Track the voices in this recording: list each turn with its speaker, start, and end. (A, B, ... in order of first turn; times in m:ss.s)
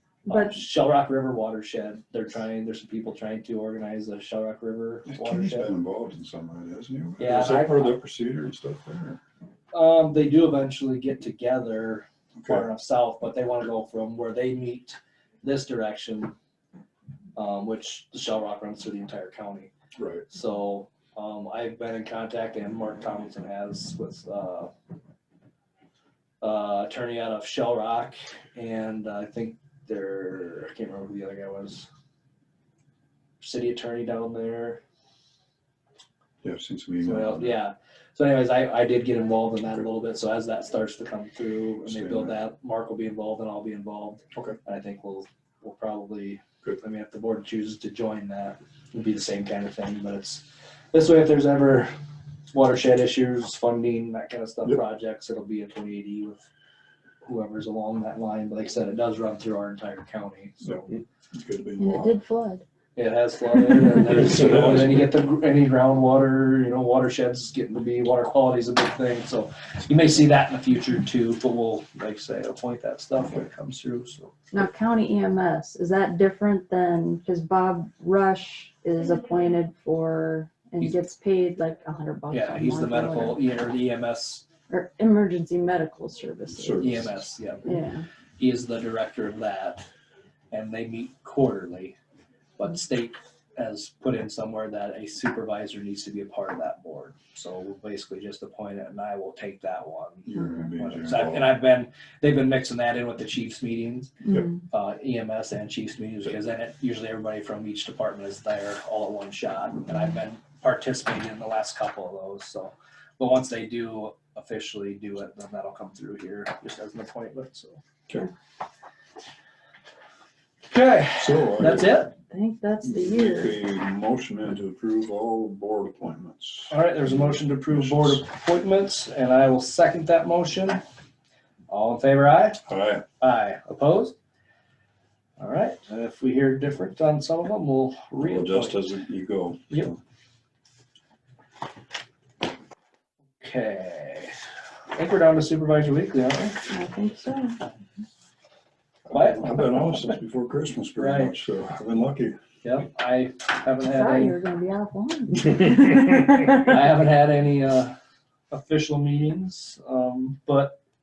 0:00.2-0:05.7 A
0:00.3-0:00.5 B
0:05.1-0:09.2 C
0:07.2-0:08.0 A
0:09.7-0:16.3 A
0:12.4-0:12.7 C
0:17.4-0:19.7 A
0:20.0-0:20.2 C
0:20.3-0:24.7 A
0:26.4-0:31.9 A
0:33.4-0:34.8 A
0:36.4-0:37.6 C
0:37.0-0:51.9 A
0:41.8-0:42.4 C
0:52.5-0:56.4 A
0:57.2-1:00.8 A
1:00.6-1:02.2 C
1:01.8-1:02.6 B
1:03.0-1:14.3 A
1:04.1-1:05.0 C
1:14.5-1:23.4 B
1:22.3-1:24.4 A
1:24.7-1:27.1 B
1:26.5-1:27.2 C
1:26.8-1:27.7 A
1:27.6-1:28.0 B
1:28.4-1:29.9 A
1:30.5-1:32.0 A
1:32.6-1:57.8 A
1:40.2-1:41.5 C
1:44.2-1:44.6 B
2:00.7-2:02.1 A
2:01.1-2:02.0 C
2:02.3-2:03.6 B
2:02.8-2:08.2 C
2:06.7-2:10.8 A
2:11.7-2:12.6 A
2:12.6-2:13.0 C
2:13.2-2:14.1 A
2:15.4-2:18.9 A
2:18.2-2:20.0 C
2:23.4-2:24.4 A
2:24.9-2:26.6 A
2:26.7-2:27.6 B
2:29.0-2:32.4 C
2:29.1-2:29.6 A
2:31.0-2:31.4 A
2:32.6-2:34.4 A
2:33.8-2:36.5 B
2:36.4-2:37.9 A
2:38.5-2:40.8 A